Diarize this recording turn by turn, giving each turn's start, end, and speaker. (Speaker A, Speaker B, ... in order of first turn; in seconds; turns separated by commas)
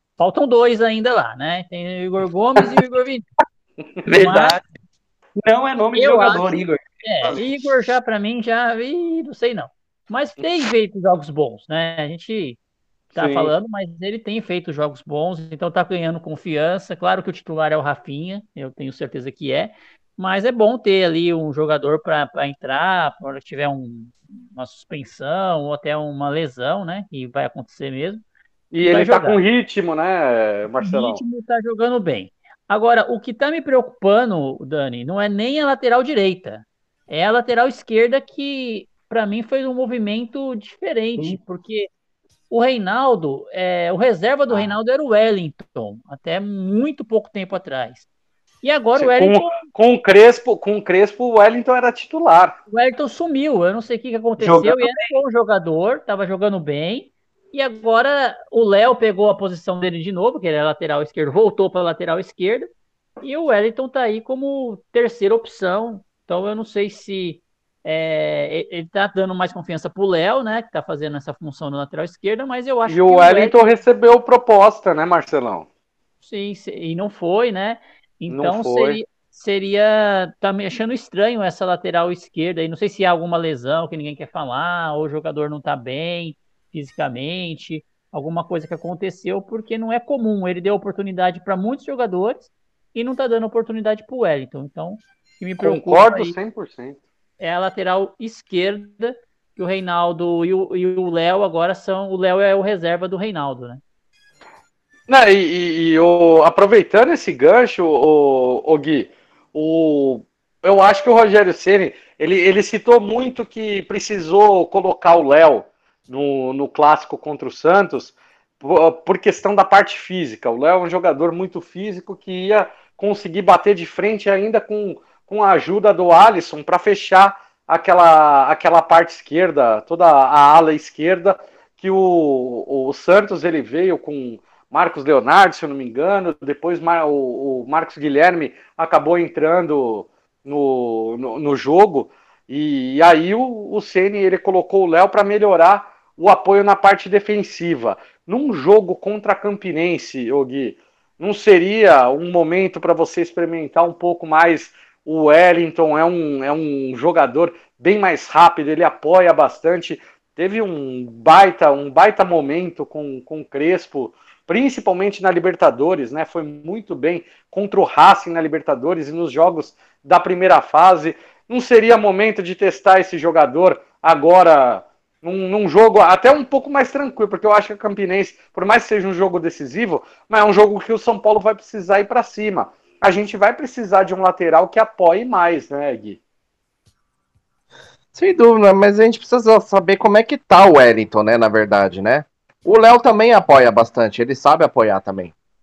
Speaker A: 0.2-3.3, Speaker B: 4.0-4.6, Speaker A: 4.1-4.6, Speaker B: 5.4-7.4, Speaker A: 6.0-6.5, Speaker A: 7.0-12.6, Speaker C: 13.1-13.5, Speaker A: 13.1-28.2, Speaker C: 28.7-31.2, Speaker A: 28.8-29.4, Speaker A: 30.8-41.9, Speaker A: 42.5-48.1, Speaker A: 48.6-49.6, Speaker C: 49.0-52.6, Speaker A: 52.7-62.7, Speaker B: 54.4-55.1, Speaker A: 63.2-73.8, Speaker C: 72.9-75.7, Speaker A: 76.2-96.4, Speaker C: 78.3-79.0, Speaker C: 95.6-97.0, Speaker A: 97.4-103.8, Speaker C: 105.1-186.2, Speaker D: 188.1-195.3